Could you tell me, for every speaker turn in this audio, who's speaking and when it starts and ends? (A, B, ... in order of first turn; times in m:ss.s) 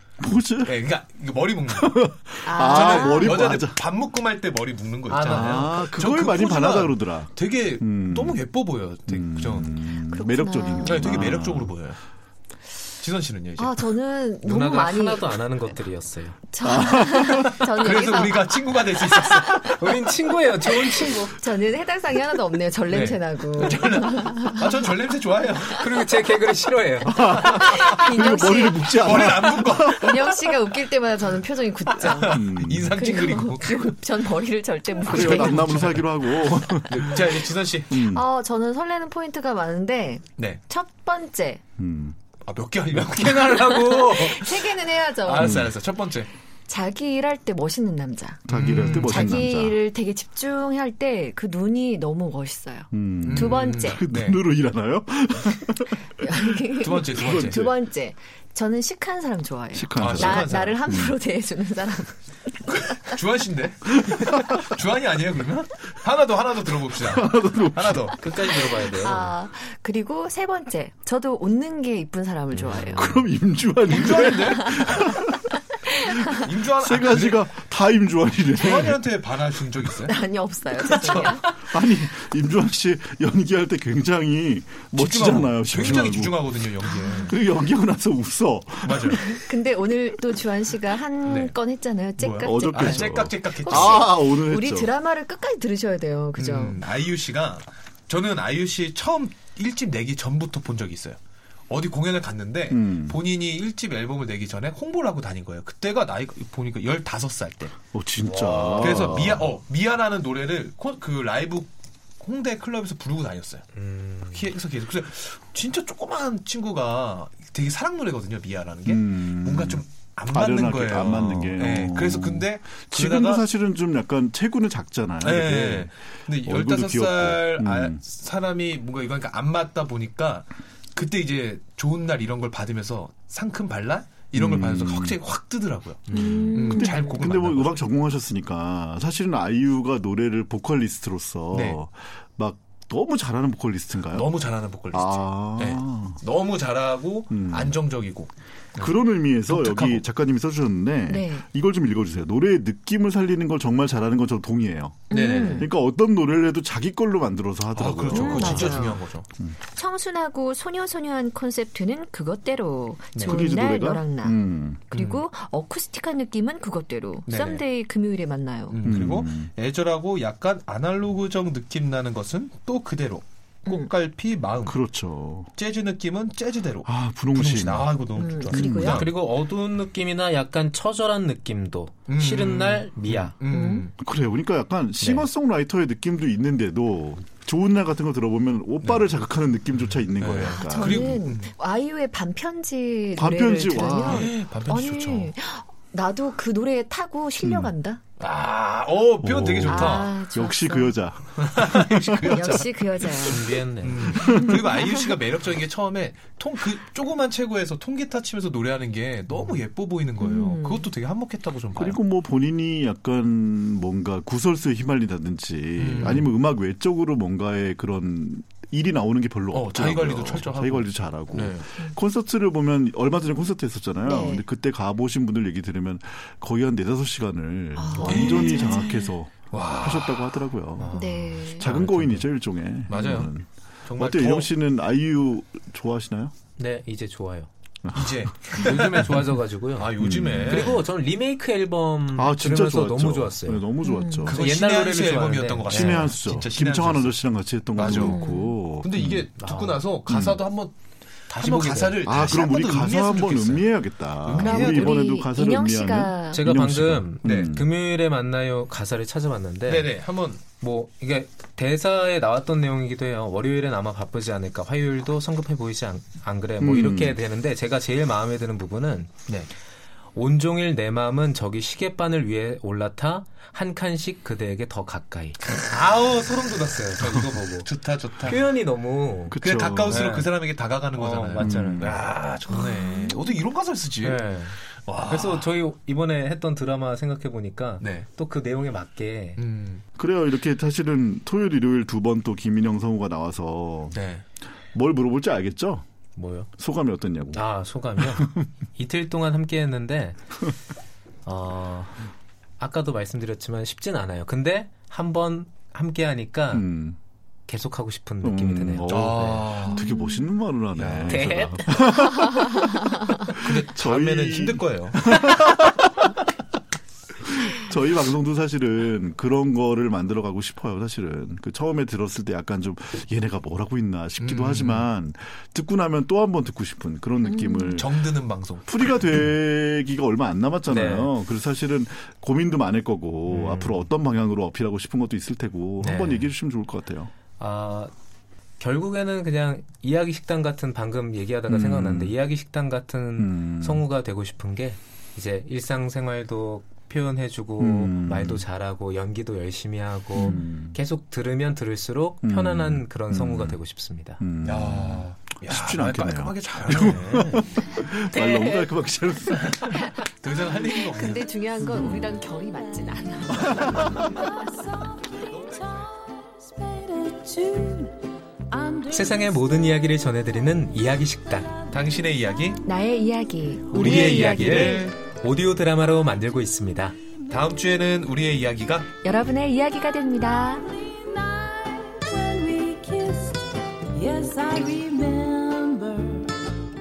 0:00.2-0:00.8 A
0:00.6-0:02.1 B
0:01.7-0:03.8 A
0:02.4-0:03.6 C
0:02.6-0:09.8 B
0:05.1-0:05.7 D
0:05.3-0:08.5 A
0:09.1-0:11.7 A
0:10.1-0:11.4 C
0:10.8-0:12.0 B
0:13.0-0:13.9 B
0:13.6-0:15.4 C
0:14.4-0:16.4 D
0:16.5-0:19.4 C
0:16.6-0:17.6 A
0:17.7-0:20.0 B
0:19.6-0:21.4 D
0:20.7-0:21.0 B
0:21.2-0:24.7 C
0:22.9-0:26.1 B
0:25.7-0:27.4 D
0:27.1-0:30.2 A
0:27.2-0:36.1 C
0:28.9-0:30.8 B
0:31.9-0:34.0 B
0:32.3-0:32.9 A
0:35.0-0:36.2 B
0:35.0-0:37.3 A
0:36.9-0:38.0 B
0:37.9-0:38.3 A
0:37.9-0:41.6 C
0:41.8-0:42.2 A
0:42.5-0:46.3 B
0:43.3-0:45.7 C
0:45.4-0:45.7 A
0:46.7-0:54.0 C
0:48.5-0:49.8 A
0:48.5-0:49.6 B
0:52.9-0:56.1 A
0:53.2-0:54.4 B
0:56.2-1:02.1 C
0:56.8-0:57.7 B
0:57.2-0:57.8 A
0:59.7-1:01.2 A
1:00.0-1:00.8 B
1:02.6-1:08.5 B
1:07.0-1:08.2 A
1:08.2-1:09.4 D
1:08.5-1:13.2 C
1:12.6-1:13.1 D
1:12.8-1:15.4 A
1:13.9-1:14.8 B
1:14.2-1:15.1 C
1:16.0-1:16.3 C
1:16.1-1:19.0 A
1:16.4-1:17.5 B
1:18.5-1:20.2 B
1:20.0-1:21.8 C
1:20.9-1:26.6 A
1:25.0-1:27.4 B
1:27.0-1:27.3 C
1:27.3-1:29.4 A
1:28.8-1:29.3 B
1:29.4-1:36.8 C
1:31.2-1:31.6 B
1:32.2-1:34.1 B
1:32.4-1:35.0 A
1:36.4-1:41.2 B
1:41.7-1:47.8 B
1:42.7-1:43.2 A
1:47.9-1:49.5 A
1:48.2-1:49.4 D
1:48.3-1:53.7 B
1:53.7-1:54.5 D
1:54.2-2:03.5 B
1:58.9-2:08.0 A
2:05.2-2:17.8 B
2:14.3-2:15.2 A
2:16.1-2:17.3 C
2:16.1-2:24.3 A
2:21.5-2:21.8 B
2:24.1-2:30.0 B
2:24.9-2:26.2 A
2:27.3-2:27.8 A
2:28.8-2:39.6 A
2:31.1-2:31.4 C
2:35.1-2:35.7 C
2:35.1-2:35.7 B
2:37.7-2:39.3 B
2:38.1-2:39.0 C
2:39.7-2:44.4 C
2:43.2-2:44.9 A
2:44.9-2:45.2 B
2:44.9-2:48.8 C
2:47.3-2:47.6 B
2:48.7-2:54.8 B
2:48.8-2:49.5 A
2:54.6-2:55.5 A
2:55.6-2:59.1 B
2:56.8-2:58.0 A
2:58.1-2:59.1 C
2:58.5-2:59.1 A
2:58.6-3:03.4 D
3:02.1-3:03.9 B
3:03.5-3:03.9 C
3:04.0-3:11.1 A
3:05.0-3:05.3 D
3:08.8-3:09.2 B
3:09.7-3:11.5 B
3:10.4-3:18.0 C
3:13.2-3:14.3 A
3:14.0-3:15.3 B
3:17.4-3:17.7 A
3:18.2-3:20.2 B
3:19.2-3:22.5 A
3:19.7-3:21.0 C
3:21.4-3:32.0 B
3:22.2-3:23.6 C
3:23.1-3:24.3 D
3:24.2-3:25.0 C
3:30.2-3:30.9 C
3:31.8-3:56.3 A
3:35.8-3:36.3 B
3:39.5-3:41.7 B
3:44.0-3:44.4 C
3:47.8-3:49.1 C
3:48.0-3:48.8 B
3:49.5-3:50.4 B
3:50.8-3:52.2 D
3:50.9-3:51.7 C
3:52.9-3:53.3 B
3:53.9-3:54.5 B
3:56.6-3:57.5 D
3:57.8-3:58.2 A
3:57.9-3:59.2 B
3:58.6-4:03.6 D
3:59.8-4:00.8 B
4:00.0-4:00.8 A
4:02.1-4:04.4 A
4:03.8-4:04.4 C
4:04.3-4:08.2 B
4:04.3-4:06.1 D
4:05.7-4:09.3 A
4:07.8-4:08.6 C
4:08.8-4:10.8 B
4:09.4-4:09.8 D
4:10.1-4:10.4 A
4:11.3-4:15.0 B
4:11.3-4:12.0 D
4:12.0-4:17.7 A
4:14.3-4:16.4 C
4:16.3-4:19.9 D
4:17.2-4:17.5 B
4:19.7-4:20.4 B
4:20.6-4:29.1 D
4:26.6-4:27.2 A
4:30.2-4:37.7 D
4:37.0-4:38.4 B
4:38.2-4:40.3 D
4:39.3-4:40.2 A
4:39.4-4:45.5 B
4:40.9-4:42.0 D
4:41.4-4:42.0 A
4:44.0-4:49.4 D
4:47.8-4:48.1 B
4:49.4-4:49.8 B
4:50.0-4:54.0 A
4:53.9-4:54.2 B
4:54.7-4:55.8 A
4:56.2-4:56.5 D
4:56.5-4:58.3 A
4:57.3-5:00.2 D
5:01.2-5:02.0 D
5:02.6-5:06.7 D
5:06.5-5:07.0 A
5:07.5-5:09.5 D
5:08.2-5:16.1 A
5:08.9-5:09.9 B
5:09.8-5:10.2 C
5:10.7-5:11.3 B
5:11.0-5:12.4 D
5:13.3-5:15.3 B
5:17.3-5:28.0 A
5:24.2-5:24.9 B
5:27.2-5:27.8 C
5:27.8-5:29.0 B
5:28.6-5:37.1 A
5:30.7-5:31.1 D
5:33.3-5:33.9 D
5:35.8-5:36.3 D
5:37.4-5:37.9 D
5:38.6-5:54.2 D
5:41.5-5:42.2 A
5:43.2-5:43.9 A
5:47.6-5:48.5 A
5:50.1-5:50.8 A
5:52.2-5:53.6 A
5:54.2-5:59.9 A
5:54.4-5:57.5 B
5:56.7-5:57.3 D
5:57.8-5:58.8 C
5:59.8-6:01.4 B
6:00.3-6:04.2 C
6:01.7-6:02.0 A
6:03.5-6:03.8 A
6:05.4-6:05.8 B
6:05.5-6:08.0 E
6:08.5-6:09.2 E
6:08.9-6:11.6 D
6:11.7-6:12.6 B
6:12.6-6:14.9 C
6:13.7-6:17.0 D
6:13.7-6:15.0 B
6:17.3-6:18.9 B
6:19.0-6:20.7 C
6:21.3-6:26.3 E